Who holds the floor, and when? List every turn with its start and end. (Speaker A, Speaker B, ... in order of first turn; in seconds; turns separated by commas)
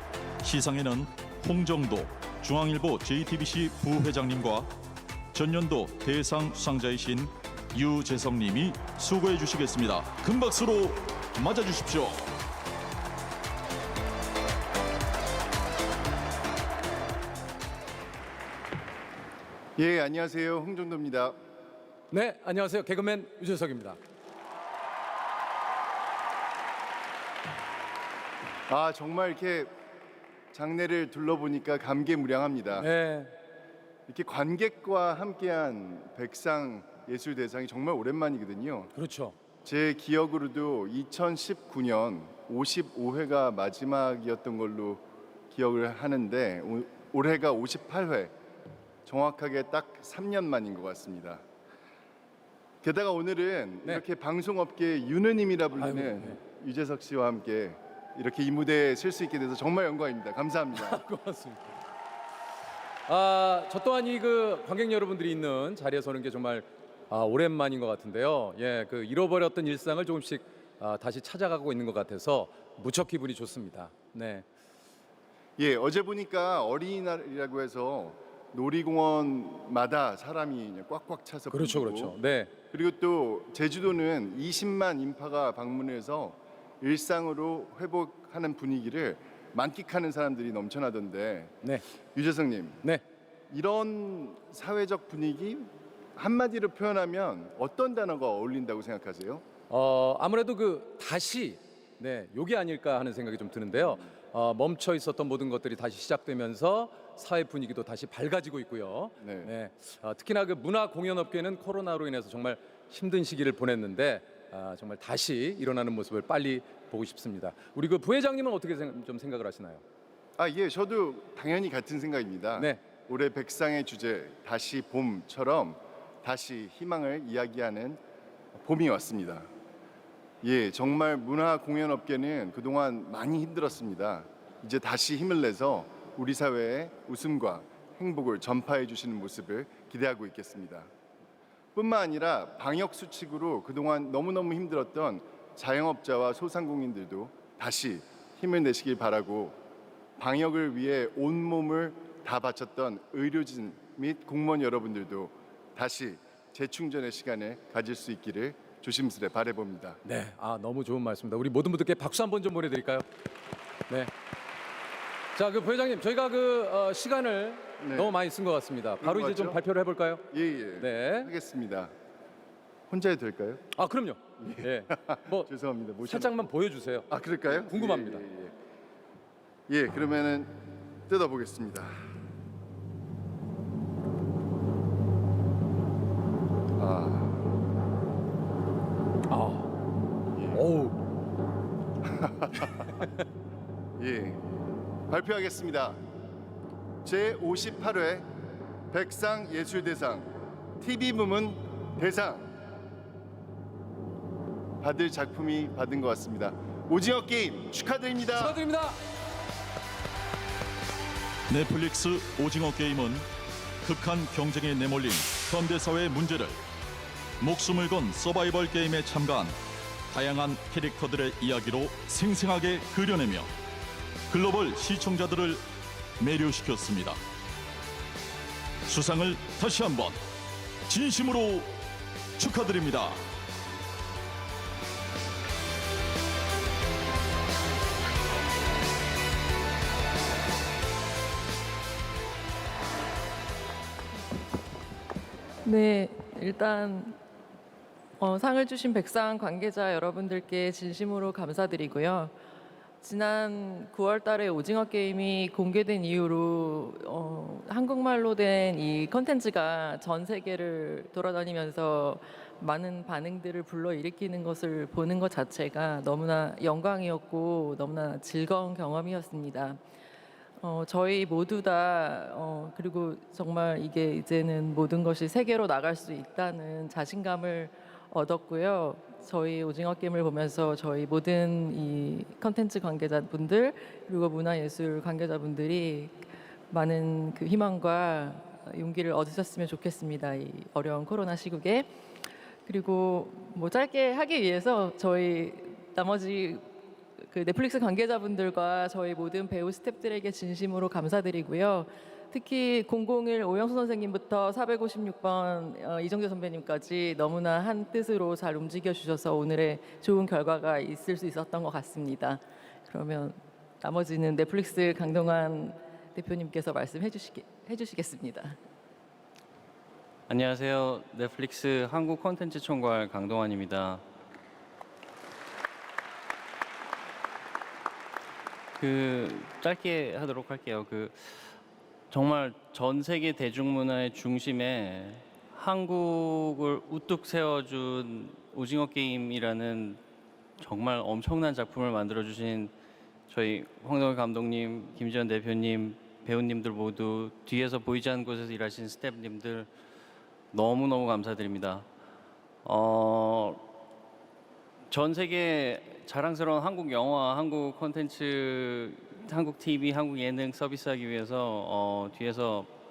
Speaker A: 0.4-4.7, Speaker A: 5.3-12.3, Speaker B: 19.8-21.4, Speaker C: 22.1-24.0, Speaker B: 28.7-29.7, Speaker B: 30.5-32.9, Speaker C: 32.8-33.3, Speaker B: 34.1-38.9, Speaker C: 38.9-39.3, Speaker B: 39.6-48.3, Speaker B: 49.0-51.4, Speaker B: 52.8-61.0, Speaker C: 55.8-56.4, Speaker C: 60.8-61.7, Speaker C: 63.1-74.4, Speaker B: 75.6-82.2, Speaker C: 81.5-82.5, Speaker B: 82.7-91.5, Speaker B: 92.1-92.8, Speaker B: 93.5-99.4, Speaker C: 99.7-119.8, Speaker B: 109.2-109.5, Speaker B: 120.4-128.0, Speaker B: 128.5-129.5, Speaker B: 130.4-140.9, Speaker B: 141.7-149.6, Speaker B: 150.2-160.0, Speaker C: 160.0-163.1, Speaker C: 165.3-170.2, Speaker B: 167.8-168.2, Speaker B: 169.0-169.6, Speaker B: 170.3-171.9, Speaker C: 170.8-171.3, Speaker B: 172.9-173.6, Speaker C: 173.7-175.5, Speaker B: 174.4-176.3, Speaker C: 176.0-178.2, Speaker B: 177.1-178.5, Speaker B: 179.7-180.5, Speaker B: 181.1-182.0, Speaker B: 186.8-187.4, Speaker C: 189.3-189.7, Speaker B: 190.3-190.6, Speaker C: 190.5-191.0, Speaker B: 192.0-192.9, Speaker B: 194.0-194.4, Speaker B: 195.1-196.0, Speaker B: 197.0-198.2, Speaker B: 198.9-202.5, Speaker B: 204.8-208.6, Speaker C: 208.3-209.0, Speaker A: 211.5-213.3, Speaker A: 213.8-216.6, Speaker A: 217.4-219.6, Speaker A: 220.1-223.5, Speaker A: 224.3-225.6, Speaker A: 226.2-227.2, Speaker A: 228.9-230.2, Speaker A: 230.9-231.7, Speaker A: 232.4-233.2, Speaker D: 245.6-247.2, Speaker D: 248.2-252.3, Speaker D: 253.0-269.8, Speaker D: 270.6-291.9, Speaker D: 292.6-296.6, Speaker D: 297.3-318.6, Speaker E: 320.3-324.0, Speaker E: 328.8-331.4, Speaker E: 332.1-340.0, Speaker E: 340.6-342.7, Speaker E: 343.3-349.7, Speaker E: 350.5-351.9, Speaker E: 352.6-353.6, Speaker E: 354.9-362.7